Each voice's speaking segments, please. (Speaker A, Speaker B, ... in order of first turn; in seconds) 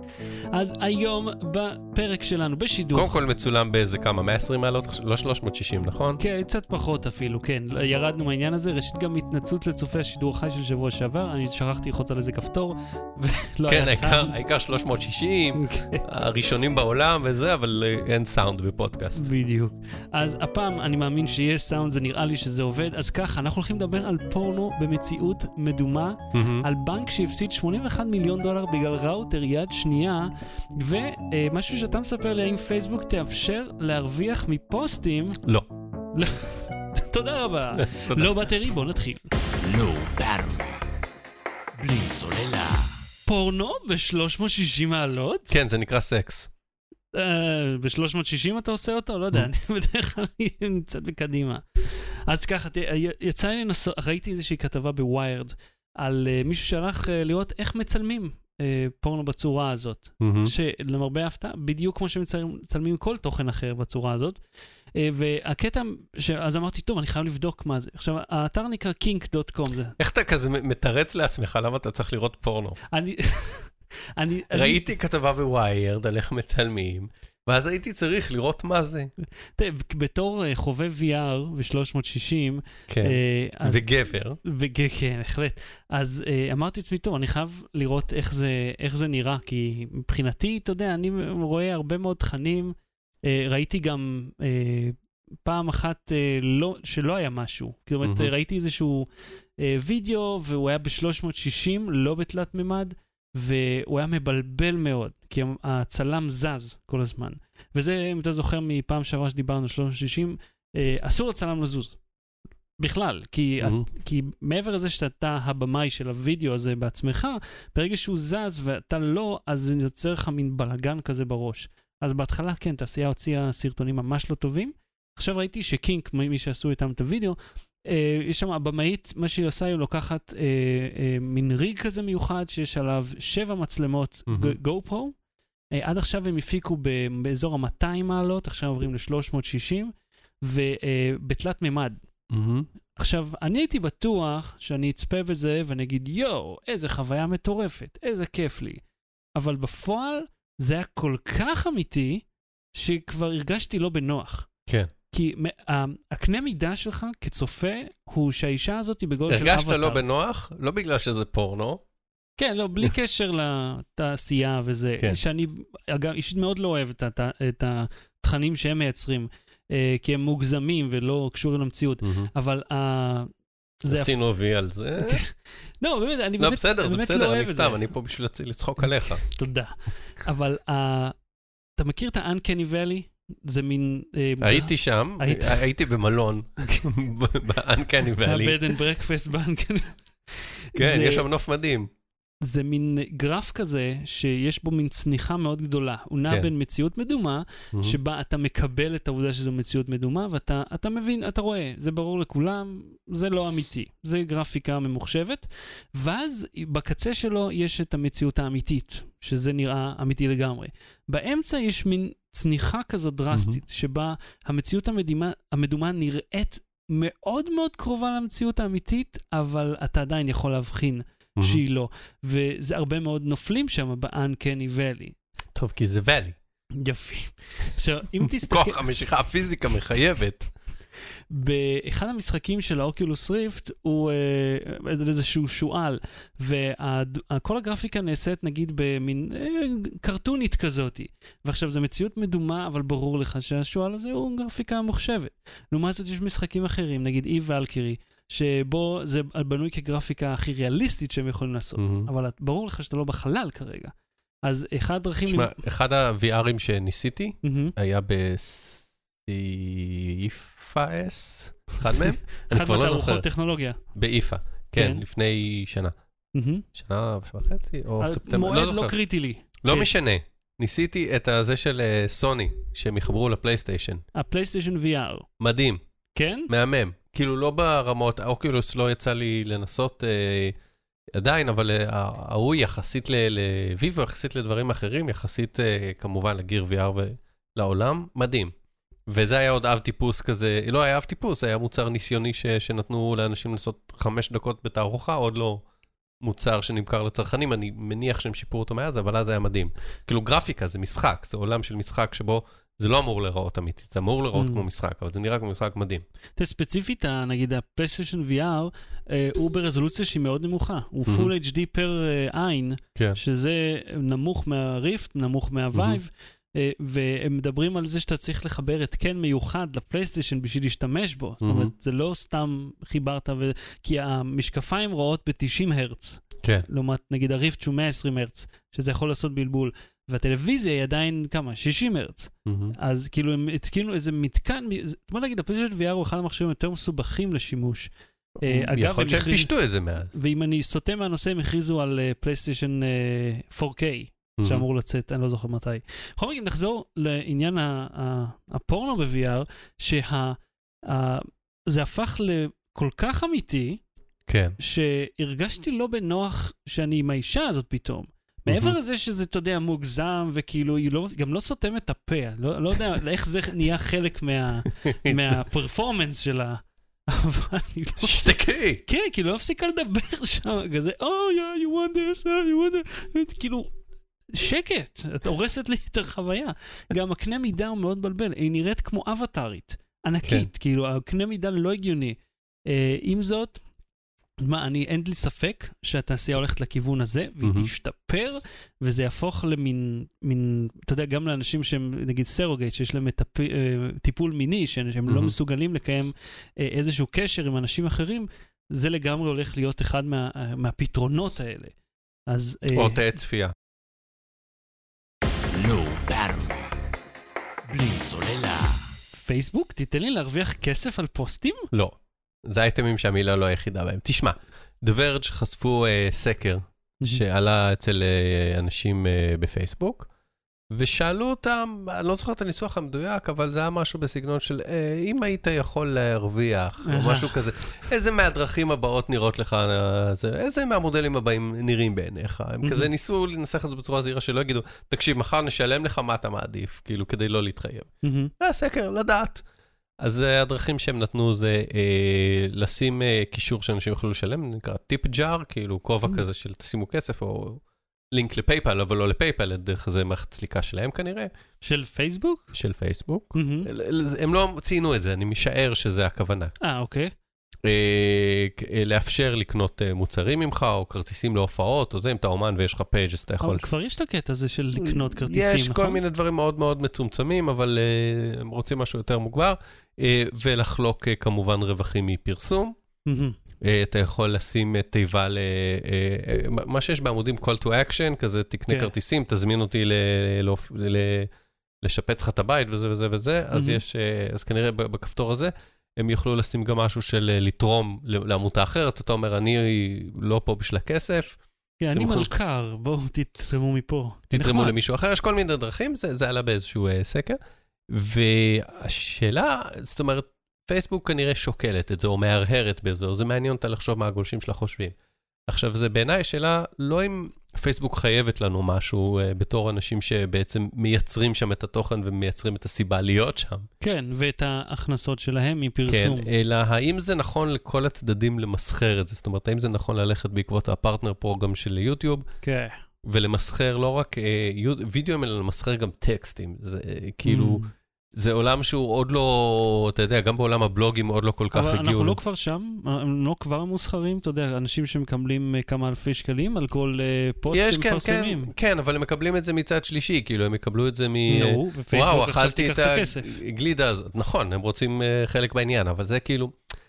Speaker A: 0.5-3.2, 6.2-14.3, 15.6-16.0, 19.1-35.4, 36.1-39.3, 43.3-45.5, 47.1-64.4, 64.9-70.0, 72.9-74.8, 79.5-83.8, 84.4-92.7, 93.2-99.1, 99.6-112.0, 112.8-135.2, 135.7-142.0, 142.9-148.8, 149.3-154.5, 155.1-160.0, 162.4-173.3, 173.8-174.2, 175.0-177.8, 178.8-181.2, 181.8-185.6, 188.2-191.2, 192.4-225.2, 226.8-228.8, 231.3-255.5, 257.4-257.7, 261.8-263.8, 264.8-265.0, 266.3-266.6, 268.0-269.9, 274.1-275.3, 276.1-276.5, 304.3-304.6, 306.4-337.9, 338.4-339.5, 340.1-353.8, 354.6-373.7, 374.3-383.6, 384.4-401.7, 402.3-403.0, 409.1-411.7, 426.8-427.3, 432.6-432.9, 438.0-438.3, 451.6-452.5, 453.3-453.7, 456.6-457.1, 463.4-466.0, 473.1-473.4, 483.5-483.8, 491.8-494.7, 513.8-516.3, 522.4-522.8, 527.2-527.7, 531.5-538.5, 541.3-543.4
Speaker B: 2.9-6.2, 13.7-19.3, 26.3-26.7, 37.8-38.4, 45.5-46.5, 60.2-60.5, 70.0-72.8, 74.5-79.1, 82.9-84.4, 98.0-98.3, 113.6-113.9, 134.3-134.6, 142.3-142.7, 159.3-161.8, 172.0-172.3, 173.8-175.2, 176.4-179.2, 184.4-188.8, 190.8-191.9, 213.3-213.6, 225.6-226.3, 228.2-230.5, 251.8-252.1, 255.3-263.2, 263.9-265.9, 266.7-268.9, 269.6-274.0, 275.4-275.8, 276.5-280.6, 281.1-288.5, 289.1-295.6, 296.2-306.0, 315.7-316.0, 321.4-321.7, 332.4-332.7, 338.4-340.1, 344.4-344.6, 354.3-354.6, 358.5-358.8, 364.8-365.4, 368.0-368.8, 387.4-387.7, 395.1-395.3, 402.7-403.5, 411.7-420.1, 420.7-439.4, 440.0-451.3, 452.5-456.5, 457.6-463.6, 464.8-472.8, 473.6-481.3, 481.8-491.4, 491.9-492.3, 494.3-497.4, 497.9-504.9, 505.5-513.7, 515.9-522.2, 523.0-527.6, 528.1-532.2, 537.5-546.5
Speaker C: 39.5-40.9, 41.7-43.0, 405.5-406.8, 407.6-408.9